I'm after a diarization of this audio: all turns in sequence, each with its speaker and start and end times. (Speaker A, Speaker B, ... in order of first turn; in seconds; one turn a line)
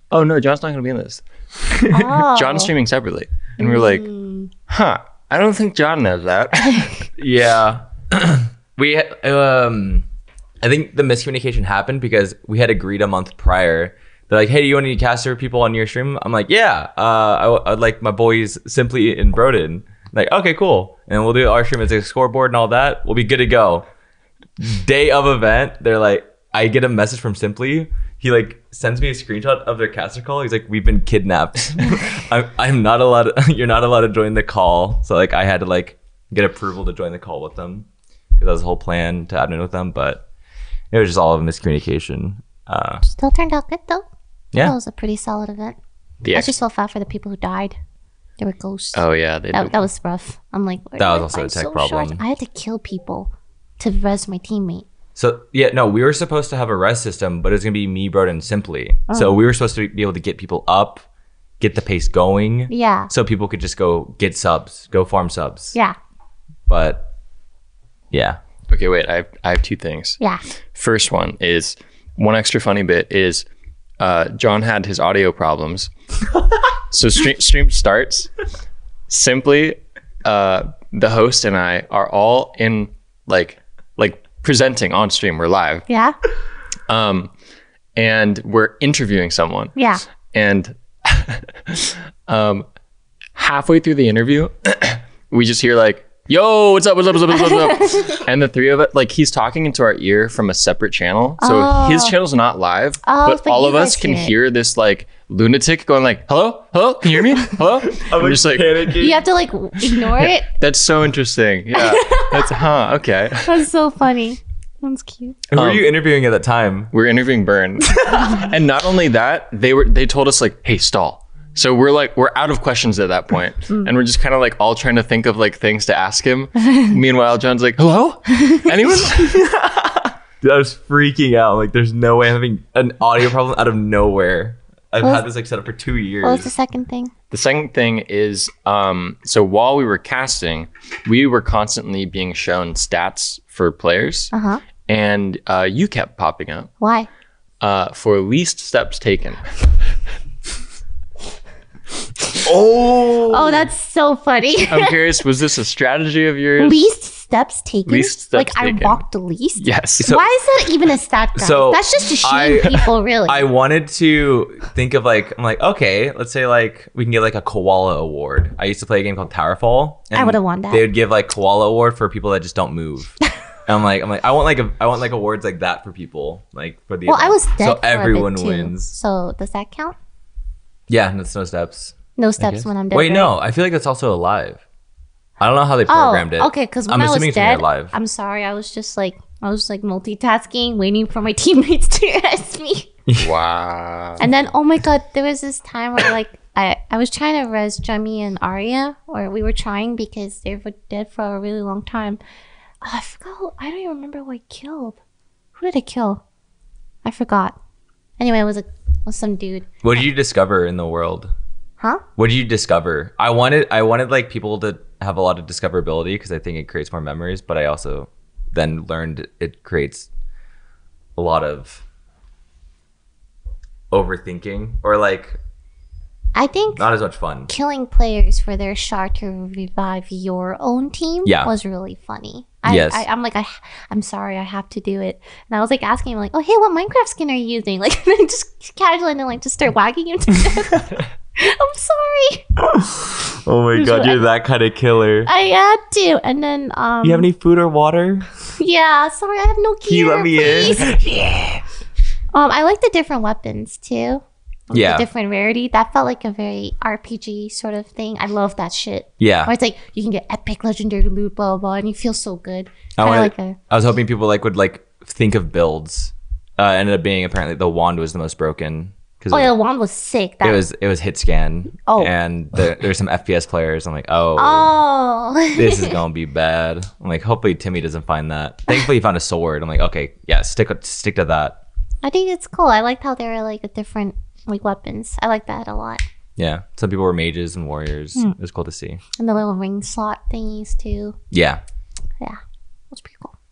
Speaker A: 0.1-4.0
Speaker B: 1.9-2.7
Speaker B: 3.6-4.5
Speaker A: 4.7-7.0
Speaker C: 7.2-10.1
Speaker C: 10.6-23.9
Speaker C: 24.6-40.2
Speaker C: 40.9-43.0
Speaker B: 43.0-44.0
Speaker B: 44.6-45.8
Speaker A: 46.2-46.5
Speaker B: 46.3-47.8
Speaker B: 48.4-54.9
Speaker A: 48.9-49.9
Speaker C: 51.0-52.2
Speaker C: 55.1-61.0
Speaker B: 59.1-59.4
Speaker C: 61.6-65.8
Speaker B: 62.7-63.1
Speaker C: 66.7-67.1
Speaker C: 68.1-68.4
Speaker A: 68.7-70.2
Speaker A: 70.7-73.5
Speaker A: 74.0-75.9
Speaker A: 76.9-78.3
Speaker A: 79.1-85.8
Speaker B: 85.9-86.2
Speaker A: 86.9-87.3
Speaker A: 88.0-89.7
Speaker B: 89.8-90.0
Speaker A: 90.3-92.6
Speaker A: 93.3-108.9
Speaker B: 97.5-98.0
Speaker B: 101.4-102.2
Speaker B: 103.0-104.3
Speaker C: 107.9-109.2
Speaker B: 109.0-110.5
Speaker A: 110.0-113.6
Speaker B: 111.7-112.7
Speaker B: 113.4-115.4
Speaker C: 115.5-116.9
Speaker A: 115.5-115.8
Speaker A: 116.9-129.4
Speaker B: 128.3-128.7
Speaker C: 129.1-136.5
Speaker B: 135.0-135.3
Speaker B: 136.2-137.1
Speaker A: 137.3-144.3
Speaker B: 144.3-144.6
Speaker A: 144.8-146.7
Speaker B: 146.8-147.1
Speaker A: 147.6-149.4
Speaker C: 152.4-153.7
Speaker B: 153.3-155.1
Speaker A: 154.7-156.8
Speaker B: 156.6-163.5
Speaker A: 157.8-159.0
Speaker A: 159.6-160.1
Speaker C: 160.0-160.3
Speaker C: 161.4-178.9
Speaker B: 170.1-170.8
Speaker B: 177.1-179.9
Speaker C: 180.9-184.6
Speaker B: 182.2-183.3
Speaker C: 185.4-187.9
Speaker B: 185.9-192.9
Speaker A: 193.2-194.3
Speaker B: 194.2-202.2
Speaker B: 202.8-205.0
Speaker B: 205.6-206.2
Speaker B: 207.0-207.6
Speaker B: 208.2-209.8
Speaker C: 209.8-211.3
Speaker C: 212.2-220.1
Speaker C: 221.2-221.8
Speaker C: 223.9-225.4
Speaker B: 226.3-226.9
Speaker C: 226.8-227.5
Speaker B: 227.5-242.5
Speaker C: 231.2-231.5
Speaker C: 232.6-233.0
Speaker C: 242.7-245.3
Speaker B: 243.7-244.2
Speaker B: 245.2-247.3
Speaker C: 247.0-248.3
Speaker B: 248.5-250.9
Speaker C: 249.8-251.6
Speaker B: 252.3-263.6
Speaker C: 254.7-255.1
Speaker C: 259.2-259.5
Speaker C: 263.0-269.5
Speaker B: 269.3-270.6
Speaker C: 270.4-274.7
Speaker B: 274.4-276.0
Speaker C: 275.5-281.6
Speaker B: 282.0-286.0
Speaker C: 286.4-289.0
Speaker B: 289.1-291.2
Speaker C: 291.3-291.6
Speaker B: 292.9-293.3